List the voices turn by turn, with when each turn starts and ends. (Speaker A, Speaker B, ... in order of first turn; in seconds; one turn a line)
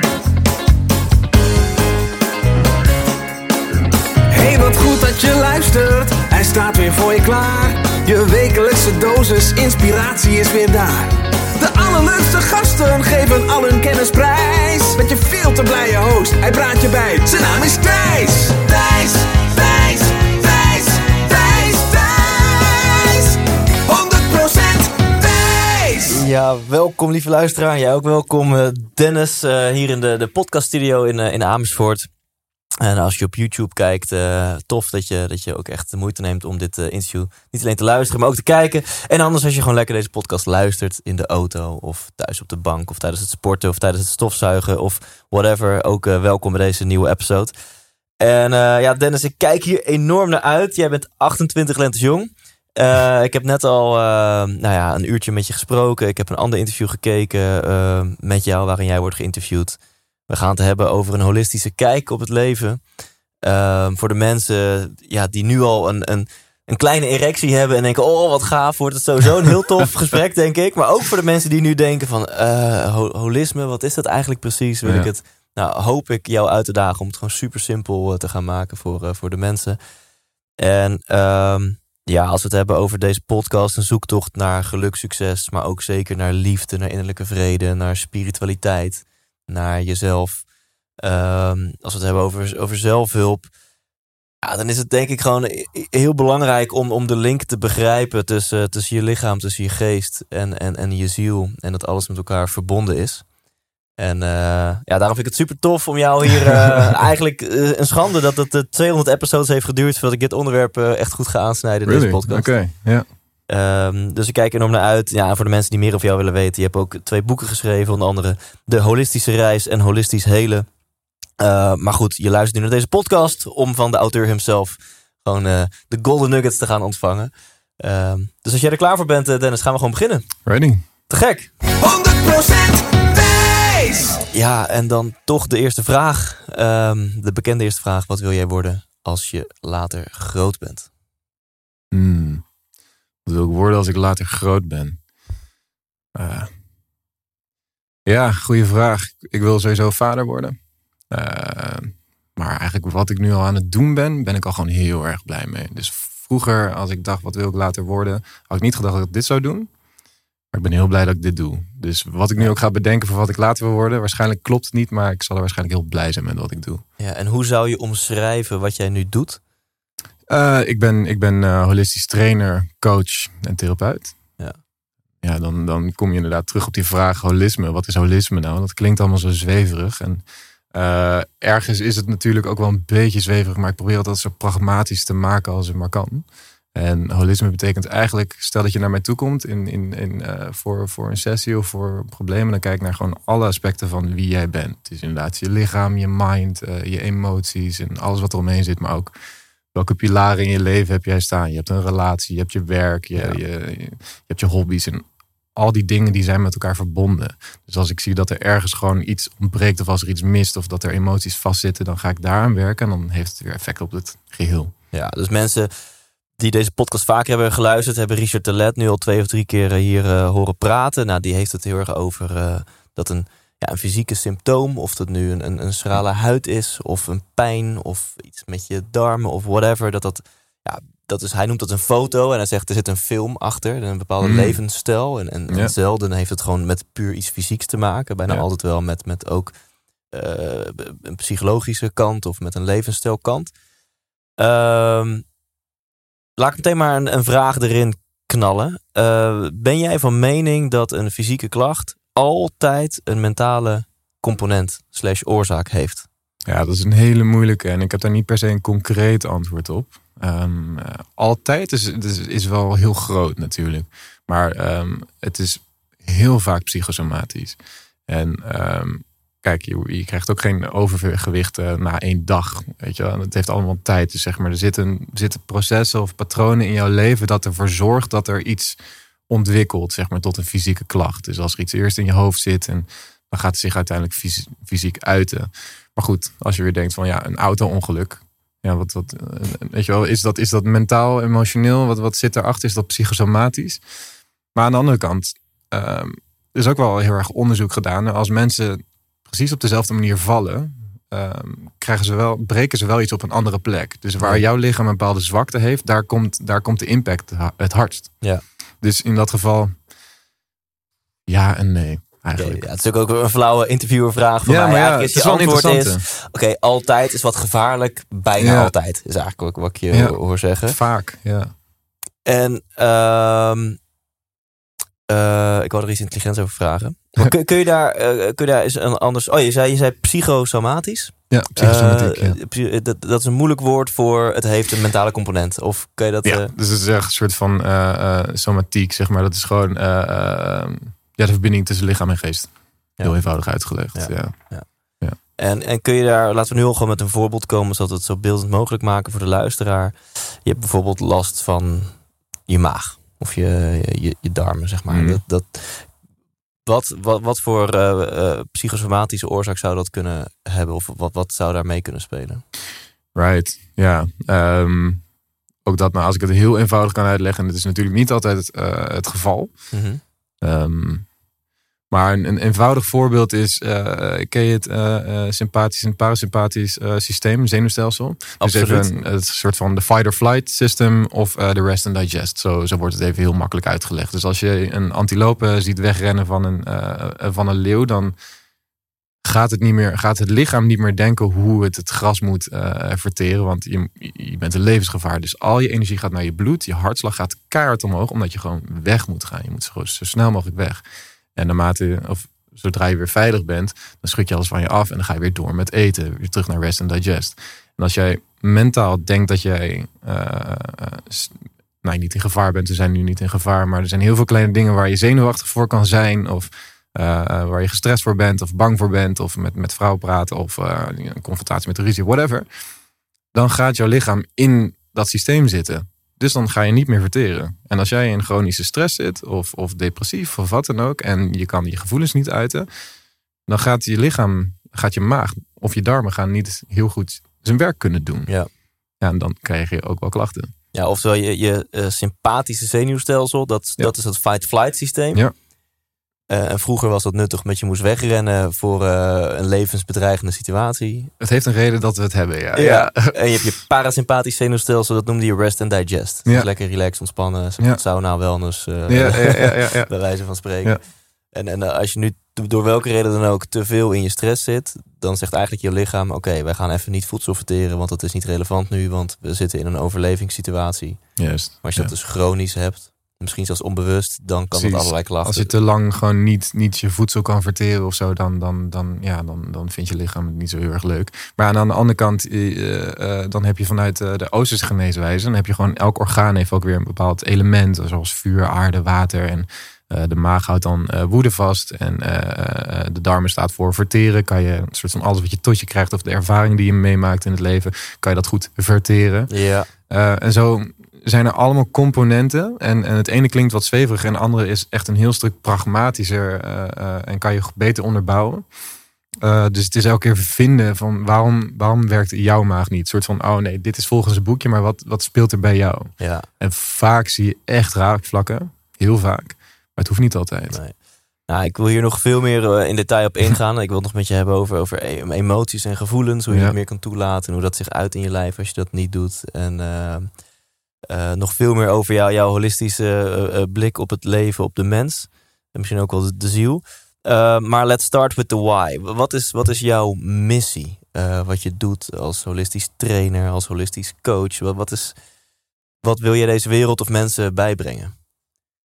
Speaker A: 4.3-26.2
Speaker B: 26.1-32.1
Speaker B: 32.8-47.5
Speaker B: 48.2-62.8
Speaker B: 63.4-79.8
Speaker C: 74.8-75.1
Speaker B: 80.6-90.5
Speaker B: 91.0-93.5
Speaker B: 94.4-103.2
Speaker B: 104.0-112.5
Speaker C: 111.8-113.0
Speaker B: 113.5-120.7
Speaker B: 121.4-130.3
Speaker C: 130.4-130.8
Speaker B: 131.1-131.5
Speaker A: 131.7-134.2
Speaker B: 134.3-140.9
Speaker C: 141.9-142.4
Speaker C: 143.2-145.0
Speaker C: 146.1-146.5
Speaker C: 148.1-150.6
Speaker C: 151.1-159.7
Speaker C: 160.5-166.8
Speaker B: 167.0-169.4
Speaker C: 170.3-174.2
Speaker C: 175.2-199.1
Speaker C: 199.7-205.0
Speaker C: 205.5-214.7
Speaker B: 214.9-215.7
Speaker B: 216.4-239.5
Speaker C: 234.2-234.6
Speaker C: 235.5-235.7
Speaker B: 240.1-243.5
Speaker B: 244.4-245.2
Speaker B: 246.4-256.1
Speaker C: 256.5-278.8
Speaker C: 279.3-293.8
Speaker C: 294.5-308.1
Speaker C: 308.8-309.7
Speaker C: 311.3-312.6
Speaker B: 312.4-320.8
Speaker C: 314.4-316.0
Speaker C: 318.4-318.7
Speaker C: 319.9-321.5
Speaker B: 322.2-323.8
Speaker B: 325.1-336.5
Speaker C: 331.3-332.4
Speaker C: 336.2-344.4
Speaker B: 343.8-344.6
Speaker B: 345.4-355.9
Speaker C: 354.9-355.2
Speaker B: 356.6-362.4
Speaker C: 363.1-365.0
Speaker C: 365.6-369.7
Speaker B: 369.7-370.0
Speaker C: 370.4-371.1
Speaker C: 371.9-388.1
Speaker B: 378.4-379.0
Speaker C: 389.2-400.8
Speaker C: 401.4-422.4
Speaker C: 423.3-432.7
Speaker C: 433.5-438.3
Speaker C: 439.0-440.5
Speaker B: 440.7-445.2
Speaker B: 446.3-451.1
Speaker C: 451.2-453.1
Speaker B: 452.5-460.8
Speaker C: 458.9-459.9
Speaker B: 461.3-475.5
Speaker C: 471.2-471.9
Speaker C: 474.5-499.3
Speaker B: 499.3-499.7
Speaker C: 499.9-508.4
Speaker C: 509.2-520.6
Speaker B: 516.0-516.3
Speaker B: 520.5-520.8
Speaker B: 521.3-530.1
Speaker C: 526.3-526.5
Speaker B: 530.9-545.0
Speaker B: 545.8-547.9